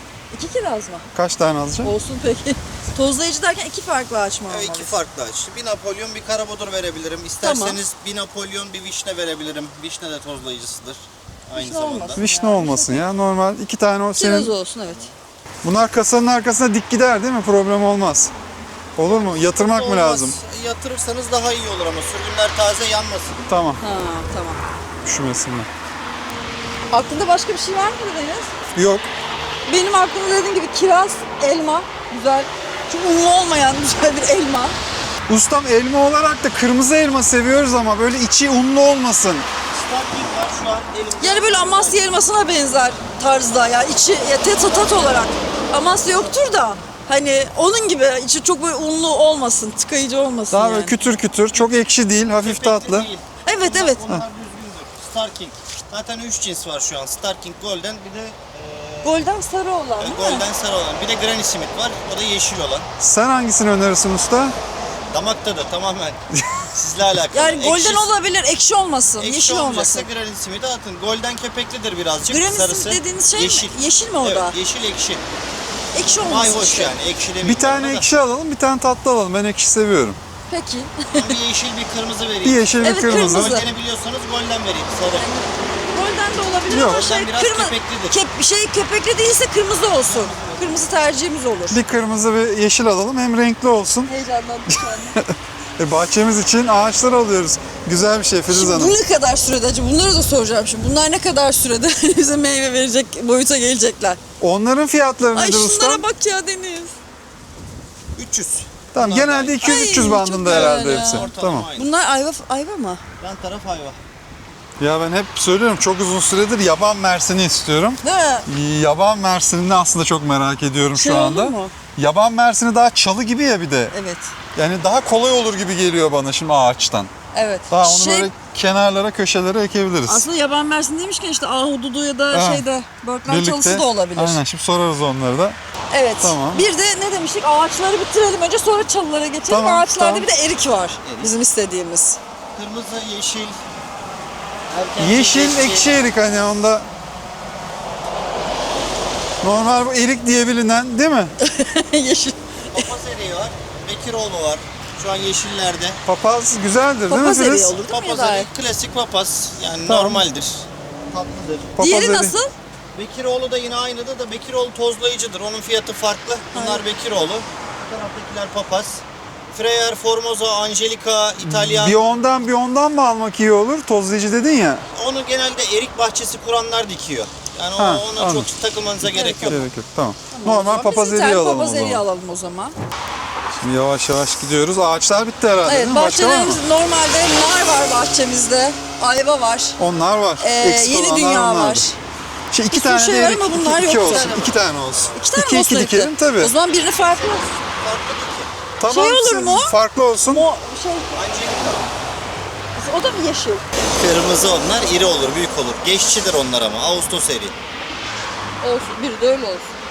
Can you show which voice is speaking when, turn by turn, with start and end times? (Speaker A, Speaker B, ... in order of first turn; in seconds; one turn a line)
Speaker A: 0.3-1.1
Speaker B: 1.1-1.9
Speaker A: 1.8-5.0
Speaker C: 4.5-12.2
Speaker A: 7.4-7.8
Speaker A: 11.6-13.1
Speaker B: 12.2-14.5
Speaker A: 14.2-15.1
Speaker B: 15.6-18.3
Speaker B: 19.0-20.4
Speaker C: 19.1-23.4
Speaker B: 23.5-23.8
Speaker A: 23.8-24.7
Speaker B: 25.1-25.7
Speaker A: 26.9-28.5
Speaker B: 28.8-29.1
Speaker A: 29.7-34.8
Speaker B: 35.3-39.5
Speaker C: 39.7-42.0
Speaker A: 41.2-51.2
Speaker C: 44.7-45.2
Speaker B: 50.5-53.1
Speaker C: 52.4-59.2
Speaker A: 53.4-54.0
Speaker A: 59.0-60.5
Speaker C: 60.0-62.9
Speaker B: 63.0-64.6
Speaker C: 65.1-68.1
Speaker B: 66.4-66.6
Speaker A: 67.3-70.1
Speaker C: 69.2-75.2
Speaker A: 72.3-74.6
Speaker A: 75.9-76.9
Speaker C: 76.2-78.2
Speaker B: 77.4-80.2
Speaker A: 80.5-81.4
Speaker C: 81.1-85.3
Speaker B: 82.4-83.6
Speaker A: 82.8-83.7
Speaker A: 85.2-91.8
Speaker B: 86.7-87.1
Speaker C: 86.7-88.2
Speaker C: 90.0-90.9
Speaker B: 91.7-94.1
Speaker A: 94.1-95.2
Speaker B: 94.7-99.0
Speaker A: 98.5-104.2
Speaker B: 104.4-106.0
Speaker A: 105.3-107.0
Speaker C: 108.2-109.8
Speaker B: 108.9-111.7
Speaker A: 109.6-113.0
Speaker C: 110.4-111.9
Speaker C: 113.2-114.0
Speaker B: 114.8-123.9
Speaker A: 118.0-118.5
Speaker A: 121.0-121.7
Speaker A: 123.9-124.3
Speaker B: 124.5-127.1
Speaker A: 127.3-128.3
Speaker B: 127.7-130.3
Speaker A: 130.1-134.4
Speaker B: 132.3-132.6
Speaker B: 133.3-135.6
Speaker A: 135.9-142.2
Speaker B: 136.2-136.6
Speaker B: 139.5-140.3
Speaker C: 141.0-141.3
Speaker C: 142.6-143.6
Speaker C: 144.7-146.0
Speaker B: 145.0-146.9
Speaker B: 149.4-151.3
Speaker A: 151.4-152.9
Speaker C: 152.7-156.0
Speaker B: 156.1-157.8
Speaker A: 157.1-158.5
Speaker C: 157.8-161.8
Speaker A: 159.9-160.2
Speaker B: 161.8-162.4
Speaker A: 161.8-162.5
Speaker C: 162.9-172.0
Speaker A: 166.5-166.8
Speaker B: 171.4-174.8
Speaker C: 174.9-179.6
Speaker B: 177.8-178.5
Speaker A: 179.1-179.6
Speaker B: 179.5-182.0
Speaker A: 180.3-182.8
Speaker B: 183.6-186.6
Speaker A: 185.7-189.8
Speaker B: 189.8-191.9
Speaker A: 190.4-191.9
Speaker B: 192.5-196.5
Speaker A: 192.7-194.5
Speaker A: 195.2-197.5
Speaker C: 197.0-198.5
Speaker B: 198.8-200.5
Speaker A: 198.9-199.8
Speaker A: 200.3-201.2
Speaker C: 201.1-201.9
Speaker A: 202.8-203.6
Speaker C: 203.9-207.6
Speaker A: 208.6-209.7